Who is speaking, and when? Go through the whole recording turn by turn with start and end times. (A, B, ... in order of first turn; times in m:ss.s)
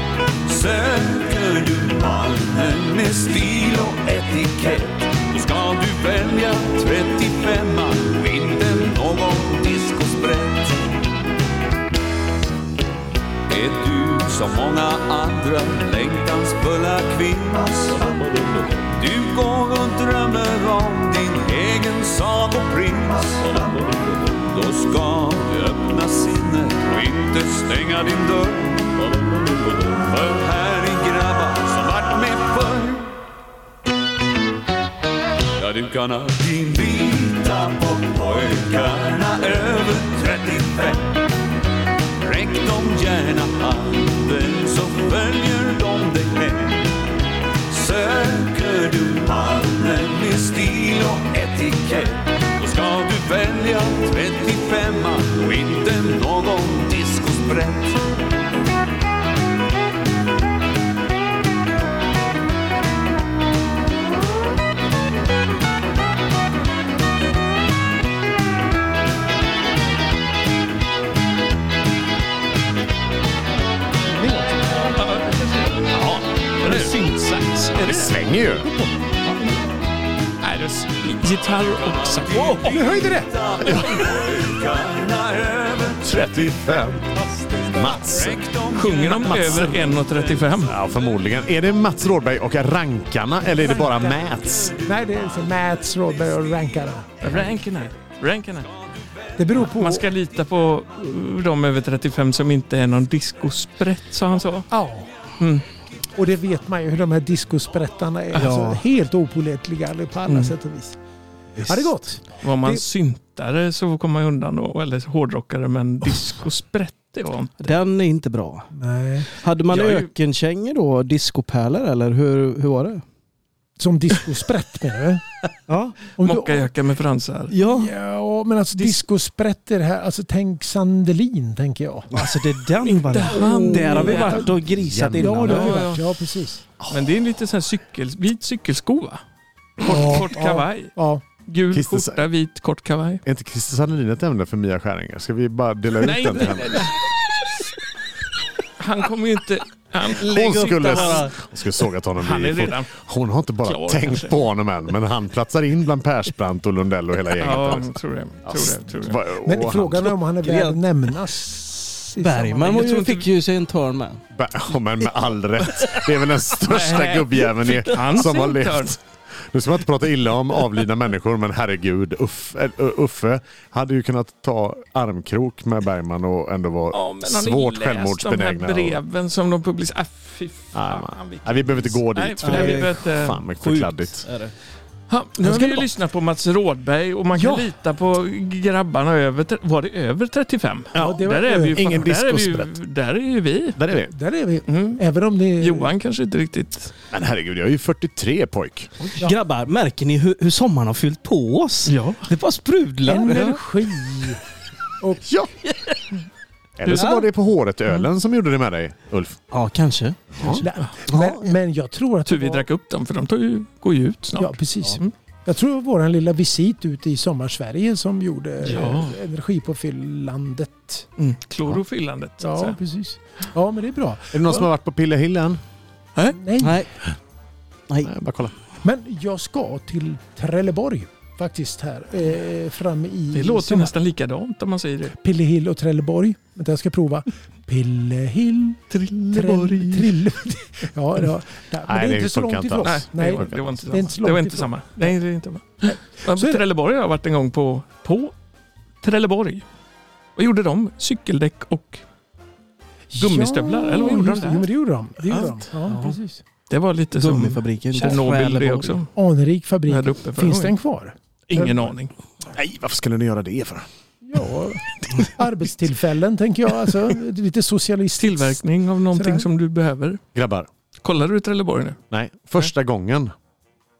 0:00.4-0:10.9 A
0:13.5-0:33.1 A
0:35.6-0:41.2 A
0:42.2-0:47.0 A
0:47.7-0:58.0 A
1:14.1-1:14.9 B
1:15.0-1:18.2 C
1:17.8-1:18.7 D
1:20.4-1:22.8 C
1:21.8-1:26.4 A
1:22.7-1:23.3 B
1:23.6-1:23.9 D
1:26.0-1:27.0 D
1:27.3-1:28.0 B
1:27.6-1:28.4 D
1:28.1-1:30.6 A
1:28.7-1:30.8 C
1:29.2-1:29.9 D
1:30.6-1:34.8 D
1:33.7-1:34.2 B
1:34.8-1:37.1 B
1:37.2-1:38.7 C
1:39.4-1:40.1 B
1:39.6-1:44.7 C
1:44.7-1:45.1 B
1:45.4-1:45.6 C
1:46.1-1:51.0 B
1:48.4-1:48.8 E
1:51.6-1:51.8 E
1:51.6-1:52.8 B
1:52.4-1:57.8 C
1:57.6-1:58.7 E
1:58.7-1:59.3 B
1:59.3-2:03.0 E
1:59.7-2:00.1 C
2:03.8-2:05.2 B
2:05.7-2:06.0 E
2:06.2-2:06.7 B
2:06.2-2:07.5 C
2:07.5-2:07.9 E
2:07.6-2:12.1 B
2:08.7-2:09.0 C
2:12.1-2:15.9 E
2:12.8-2:14.5 C
2:13.3-2:14.5 B
2:14.6-2:15.6 D
2:15.2-2:16.6 B
2:15.4-2:16.0 C
2:16.8-2:17.1 D
2:16.9-2:19.2 C
2:19.8-2:20.9 C
2:19.8-2:21.2 B
2:21.4-2:23.2 C
2:21.7-2:22.2 D
2:23.2-2:26.9 D
2:26.0-2:27.6 C
2:28.8-2:31.4 C
2:30.2-2:37.9 D
2:30.3-2:31.3 E
2:32.2-2:33.0 C
2:33.6-2:34.4 C
2:37.3-2:39.2 C
2:38.4-2:40.1 D
2:39.4-2:42.8 B
2:40.4-2:40.8 E
2:42.2-2:44.2 E
2:42.6-2:43.3 C
2:44.3-2:59.0 D
2:46.6-2:49.0 C
2:56.9-3:03.4 C
3:00.7-3:04.3 D
3:02.4-3:04.5 E
3:05.1-3:13.8 C
3:05.4-3:05.8 B
3:07.3-3:07.7 B
3:10.9-3:11.2 D
3:10.9-3:11.8 B
3:11.7-3:12.7 D
3:13.8-3:14.1 D
3:14.1-3:15.9 B
3:14.7-3:15.0 C
3:15.6-3:16.9 C
3:17.1-3:18.9 D
3:19.2-3:23.6 E
3:21.8-3:22.3 C
3:23.0-3:24.4 B
3:25.0-3:25.2 B
3:25.2-3:25.5 D
3:26.8-3:29.4 D
3:26.8-3:27.1 C
3:26.9-3:27.2 E
3:29.5-3:31.4 E
3:30.3-3:30.6 D
3:30.6-3:32.6 B
3:32.2-3:35.1 C
3:34.4-3:41.1 B
3:38.6-3:39.2 C
3:41.2-3:42.8 C
3:42.4-3:44.6 B
3:44.3-3:45.6 D
3:46.3-3:46.8 B
3:46.6-3:46.9 E
3:48.0-3:48.5 D
3:48.8-3:53.9 B
3:53.3-3:55.2 C
3:55.2-4:05.1 B
3:58.9-4:00.2 C
4:01.8-4:04.0 D
4:02.8-4:08.3 C
4:06.3-4:06.6 B
4:09.0-4:09.6 C
4:10.4-4:12.0 C
4:13.1-4:16.4 B
4:13.2-4:14.7 C
4:15.4-4:16.2 E
4:16.7-4:19.1 C
4:17.1-4:19.0 E
4:19.1-4:21.9 B
4:19.9-4:20.7 C
4:21.5-4:22.1 C
4:22.5-4:23.9 D
4:24.2-4:28.6 B
4:28.2-4:30.2 C
4:29.1-4:29.5 B
4:30.3-4:30.7 D
4:31.0-4:32.0 C
4:32.1-4:33.3 D